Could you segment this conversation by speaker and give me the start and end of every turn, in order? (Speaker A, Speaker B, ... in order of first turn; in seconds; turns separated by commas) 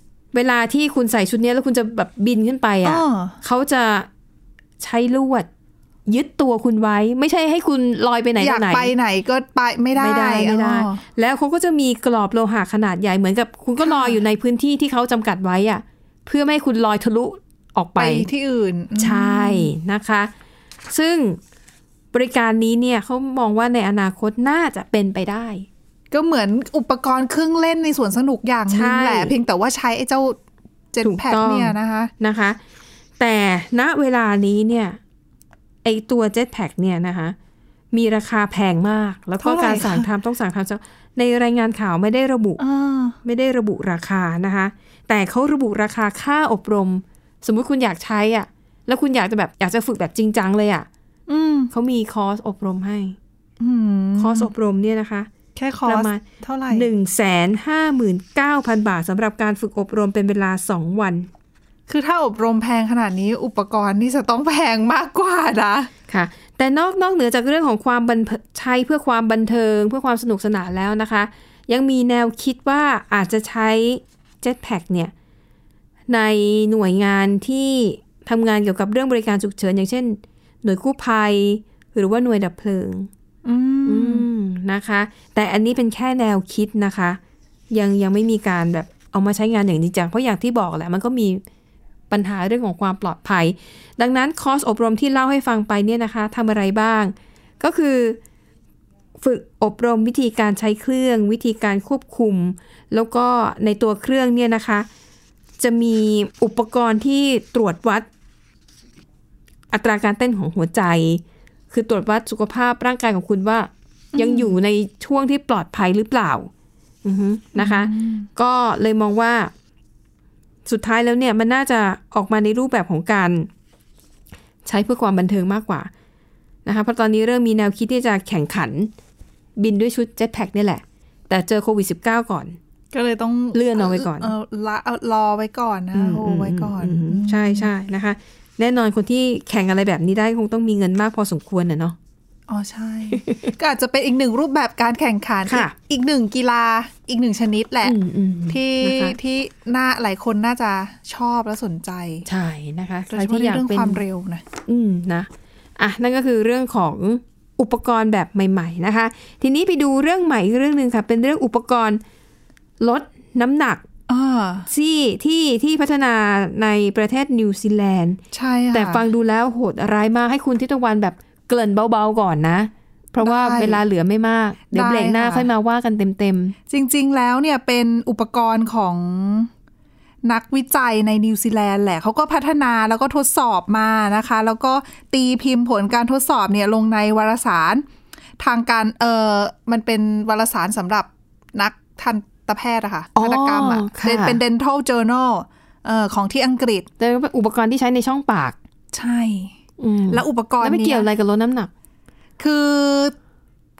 Speaker A: 0.3-4.1, Speaker B: 2.8-3.4, Speaker A: 4.8-5.5, Speaker A: 6.1-8.9, Speaker B: 8.4-11.0, Speaker A: 9.9-18.3, Speaker B: 13.8-14.2, Speaker B: 18.0-19.7, Speaker A: 19.0-20.3, Speaker A: 20.9-21.4, Speaker A: 22.1-25.6, Speaker B: 26.1-30.4, Speaker A: 28.7-29.3, Speaker B: 30.9-32.1, Speaker A: 31.0-32.6, Speaker A: 33.2-35.0, Speaker A: 35.8-37.4, Speaker A: 37.9-42.6, Speaker B: 39.4-40.1, Speaker B: 42.6-43.2, Speaker A: 43.2-50.9, Speaker B: 51.3-51.7, Speaker A: 51.7-53.1, Speaker B: 53.6-54.5, Speaker A: 54.2-55.3, Speaker B: 55.5-56.9, Speaker A: 55.8-61.3, Speaker B: 61.9-65.9, Speaker A: 66.1-75.1, Speaker A: 76.1-83.1, Speaker B: 83.4-84.2, Speaker A: 83.8-87.2, Speaker A: 87.7-91.4, Speaker A: 92.1-98.2, Speaker A: 99.2-104.9, Speaker A: 105.6-108.0, Speaker A: 109.7-116.5, Speaker B: 114.1-114.5, Speaker A: 117.0-119.5, Speaker B: 117.5-118.3, Speaker A: 120.7-123.5, Speaker A: 124.6-125.9, Speaker A: 126.6-128.9, Speaker A: 129.6-132.6, Speaker B: 132.9-137.7, Speaker A: 133.5-134.3, Speaker A: 135.9-141.9, Speaker B: 142.5-147.9, Speaker A: 143.1-143.5, Speaker A: 145.4-145.7, Speaker A: 147.8-149.2, Speaker B: 148.5-152.2, Speaker A: 152.3-154.0, Speaker B: 153.1-154.4, Speaker A: 154.7-162.0, Speaker A: 162.8-163.8, Speaker B: 164.1-164.7, Speaker A: 164.7-168.2, Speaker B: 168.3-169.0, Speaker A: 168.7-176.5, Speaker B: 173.2-173.8, Speaker B: 174.7-175.5, Speaker B: 176.7-179.5, Speaker B: 180.2-187.8, Speaker B: 188.4-196.9, Speaker A: 193.2-194.4, Speaker A: 197.0-198.6, Speaker B: 198.9-199.5, Speaker A: 199.8-201.7, Speaker B: 200.1-201.1, Speaker B: 202.4-203.1